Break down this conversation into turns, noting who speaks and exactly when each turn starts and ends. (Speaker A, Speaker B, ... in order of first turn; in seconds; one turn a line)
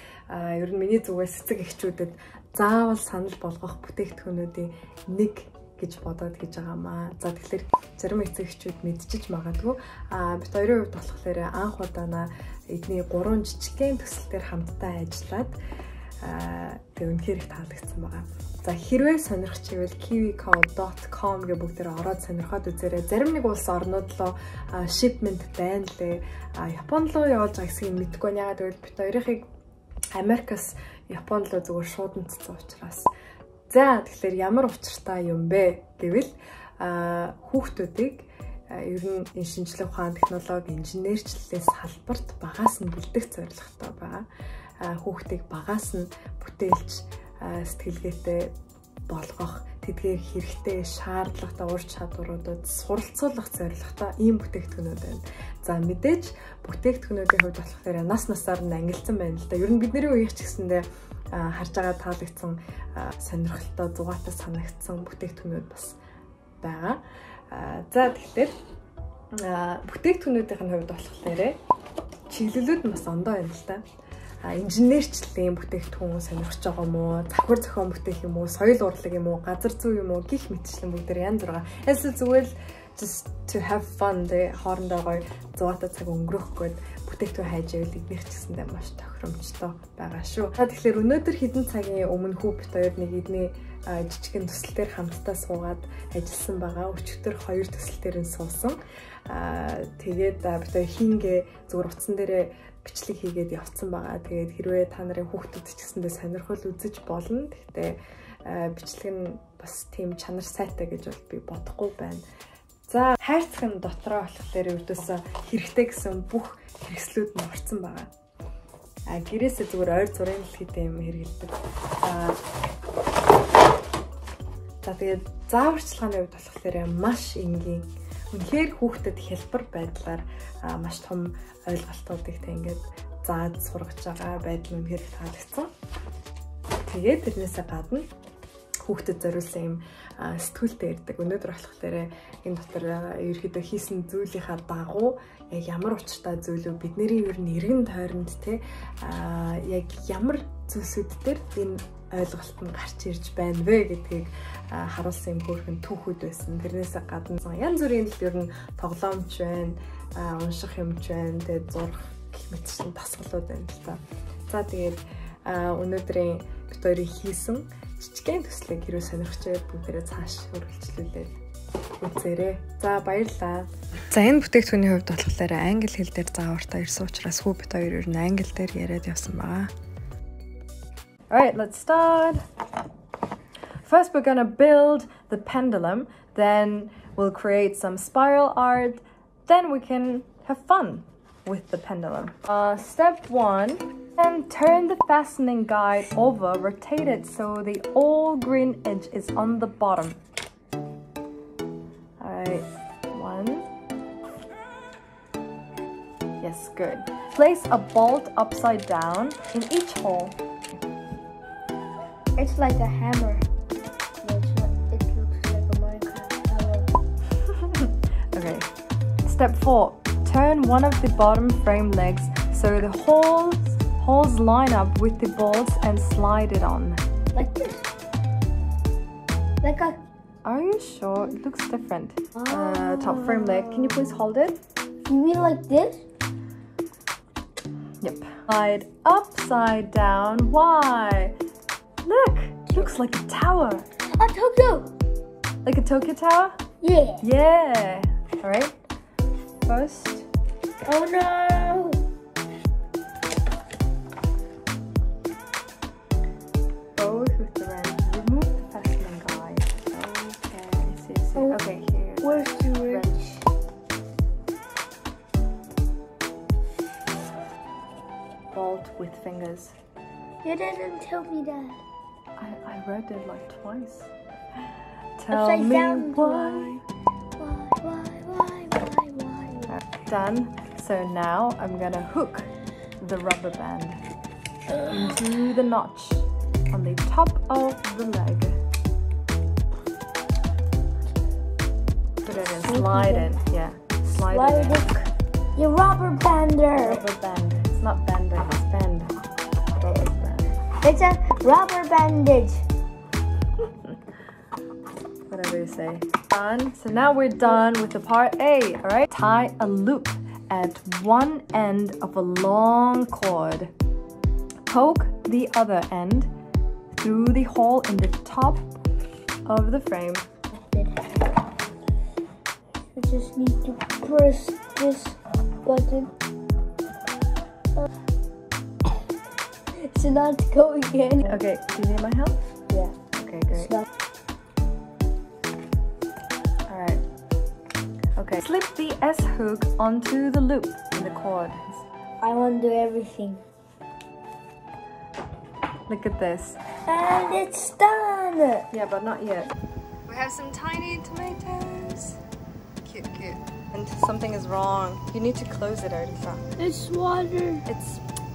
Speaker A: 0.3-15.6
Speaker A: 16.2-29.4
Speaker A: 30.1-33.1
Speaker A: 33.7-44.2
Speaker A: 44.8-48.5
Speaker A: 49.1-66.0
Speaker A: 66.6-68.5
Speaker A: 69.3-71.6
Speaker A: 72.3-73.8
Speaker A: 74.4-112.2
Speaker A: 112.9-118.1
Speaker A: 119.1-122.4
Speaker A: 124.8-135.7
Speaker A: 136.8-138.1
Speaker A: 138.8-171.4
Speaker A: 172.0-179.7
Speaker A: 181.3-182.4
Speaker A: 183.8-200.2
Speaker A: 202.2-203.7
Speaker A: 206.4-210.4
Speaker B: 212.3-213.5
Speaker B: 214.2-216.9
Speaker A: 217.6-218.7
Speaker A: 219.2-227.0
Speaker B: 227.3-227.9
Speaker B: 229.6-230.0
Speaker A: 230.4-234.6
Speaker B: 235.1-236.0
Speaker A: 238.0-241.3
Speaker A: 242.0-243.8
Speaker B: 244.1-244.9
Speaker A: 245.6-246.6
Speaker B: 246.8-247.2
Speaker A: 247.2-248.8
Speaker A: 249.7-250.3
Speaker B: 250.8-252.0
Speaker A: 256.9-263.4
Speaker B: 261.3-261.6
Speaker B: 262.2-263.4
Speaker A: 268.5-269.8
Speaker B: 270.4-271.8
Speaker A: 272.4-274.1
Speaker A: 275.2-276.8
Speaker B: 275.3-276.8
Speaker B: 277.4-279.7
Speaker A: 279.7-284.0
Speaker A: 284.8-288.6
Speaker A: 292.2-295.1
Speaker B: 292.6-293.3
Speaker B: 294.1-294.9
Speaker B: 295.6-297.0
Speaker A: 296.8-299.1
Speaker A: 299.8-300.6
Speaker B: 300.8-302.6
Speaker A: 305.3-313.7
Speaker A: 314.7-316.3
Speaker A: 316.9-318.7
Speaker A: 319.4-320.2
Speaker B: 320.5-321.3
Speaker B: 322.9-326.1
Speaker B: 329.8-331.4
Speaker A: 331.2-332.5
Speaker B: 332.7-332.9
Speaker A: 333.1-333.7
Speaker B: 333.5-333.9
Speaker A: 336.7-337.0
Speaker A: 338.1-341.8
Speaker B: 342.2-343.4
Speaker A: 345.9-346.6
Speaker B: 346.8-348.7
Speaker A: 348.7-349.5
Speaker A: 350.1-352.2
Speaker A: 352.8-356.5
Speaker B: 356.6-357.6
Speaker A: 357.7-358.0